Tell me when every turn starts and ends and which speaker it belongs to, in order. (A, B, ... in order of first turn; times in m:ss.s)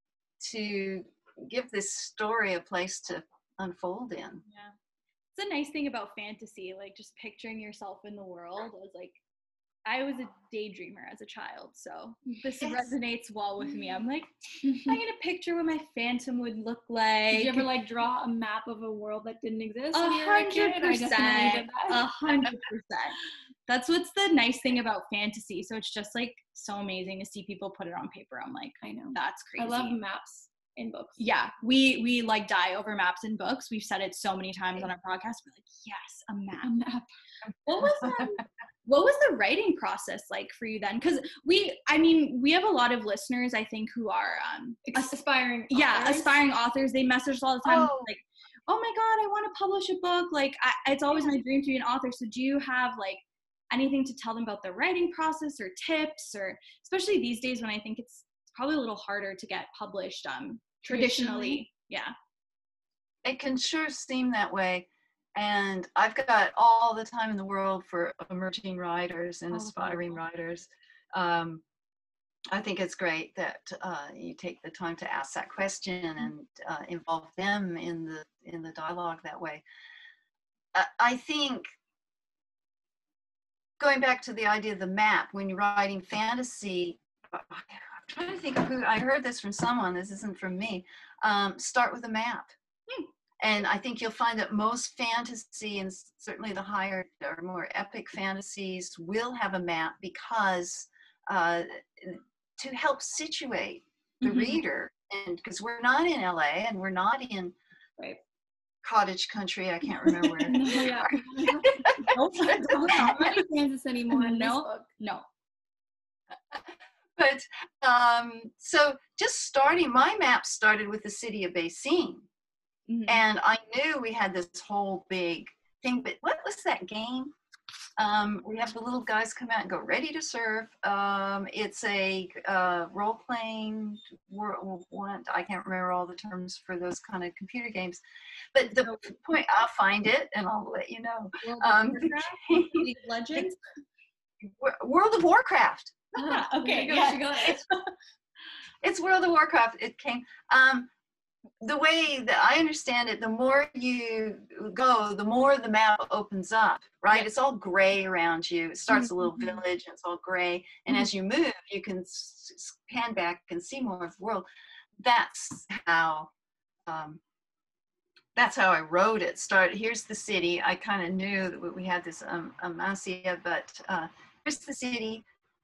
0:00.4-0:04.4 A
0:04.5-0:04.7 B
0:05.3-0:09.2 B
0:09.9-0:17.7 B
0:12.6-0:12.9 A
0:14.7-0:14.9 C
0:17.3-0:22.0 C
0:19.9-0:23.2 B
0:23.7-0:30.0 B
0:28.8-0:31.2 C
0:31.2-0:36.7 B
0:36.6-0:37.1 C
0:37.7-0:45.1 B
0:37.8-0:38.3 A
0:44.9-0:46.4 C
0:45.7-1:02.1 B
0:47.6-0:48.1 A
1:00.8-1:01.6 C
1:03.2-1:11.6 A
1:09.6-1:09.9 B
1:12.5-1:19.6 A
1:20.7-1:21.7 A
1:23.8-1:32.5 A
1:33.4-1:47.5 A
1:44.2-1:44.6 B
1:48.8-1:53.4 A
1:50.3-1:50.9 B
1:50.5-1:54.9 C
1:52.0-1:53.4 B
1:54.1-1:55.2 B
1:57.2-2:02.3 A
2:02.9-2:03.2 B
2:03.1-2:07.3 A
2:08.0-2:18.0 A
2:18.5-2:23.5 A
2:21.4-2:23.6 B
2:24.4-2:26.1 A
2:26.2-2:27.9 B
2:26.2-2:27.6 C
2:28.8-2:30.9 A
2:31.6-2:44.5 A
2:39.0-2:39.6 B
2:45.0-2:46.3 A
2:46.9-2:47.2 A
2:48.4-2:55.2 A